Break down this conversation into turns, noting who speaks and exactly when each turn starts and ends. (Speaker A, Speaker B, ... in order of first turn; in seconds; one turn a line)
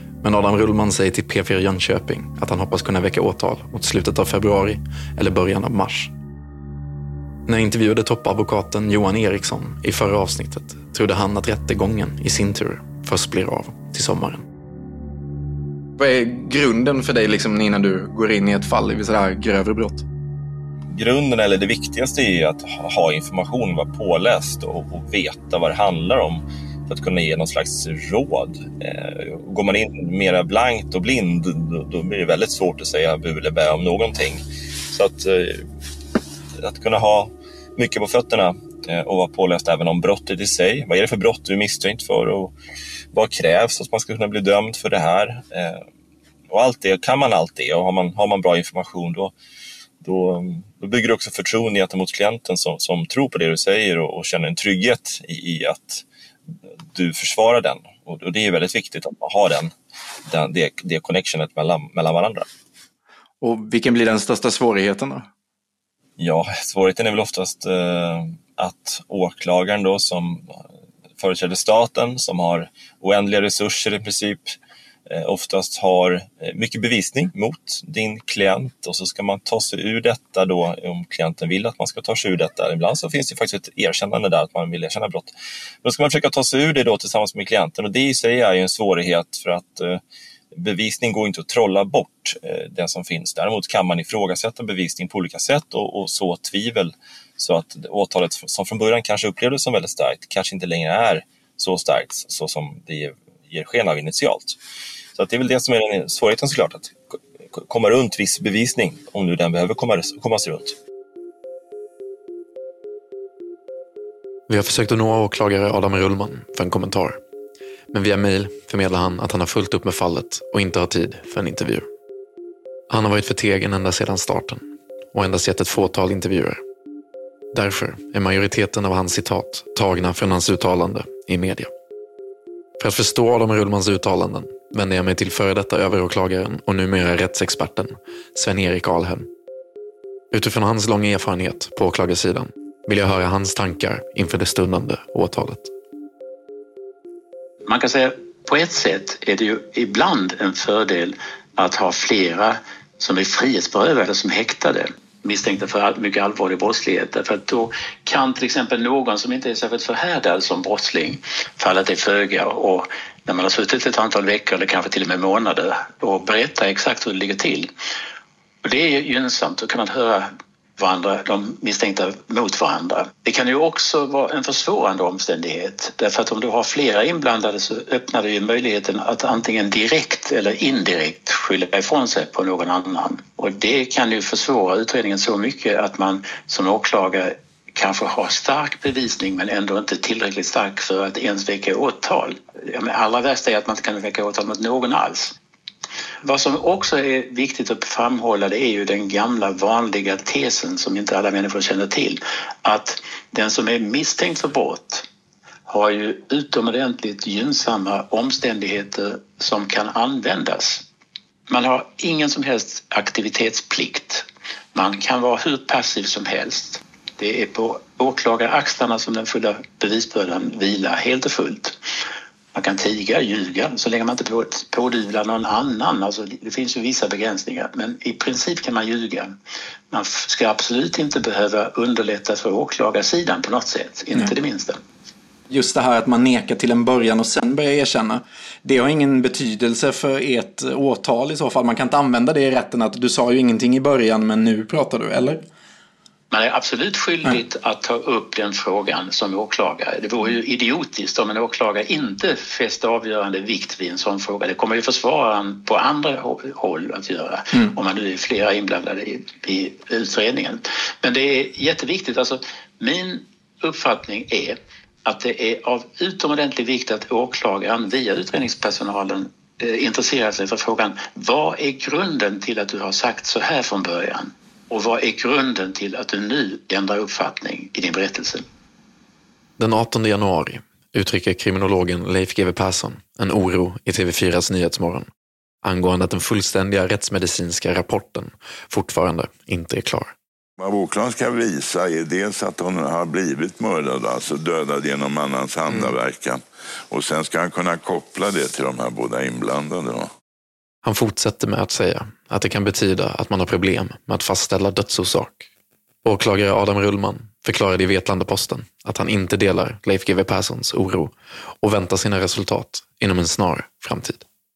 Speaker A: 0.2-6.1
Speaker A: 7.5-14.4
Speaker B: 16.0-20.0
Speaker C: 20.9-35.6
Speaker C: 36.6-42.5
Speaker C: 43.1-45.8
Speaker C: 46.5-49.3
Speaker C: 50.0-56.0
Speaker C: 56.9-59.7
Speaker C: 60.3-62.5
Speaker B: 63.4-65.3
Speaker C: 66.2-70.5
Speaker C: 71.2-74.5
Speaker C: 75.1-85.3
Speaker C: 85.8-90.0
Speaker C: 90.5-104.6
Speaker C: 105.2-106.9
Speaker C: 107.5-110.8
Speaker A: 114.5-117.2
Speaker A: 117.9-121.9
Speaker A: 122.9-126.6
Speaker A: 127.5-131.7
Speaker A: 132.8-139.3
Speaker A: 140.3-145.7
Speaker D: 147.7-167.7
Speaker D: 168.6-195.3
Speaker D: 196.2-205.0
Speaker D: 205.7-210.8
Speaker D: 211.5-221.8
Speaker D: 222.5-229.4
Speaker D: 229.9-234.8
Speaker B: 235.5-245.4
Speaker D: 246.3-278.4
Speaker A: 279.6-285.1
Speaker A: 285.6-290.1
Speaker E: 290.6-300.1
Speaker A: 300.8-305.5
Speaker A: 306.0-314.2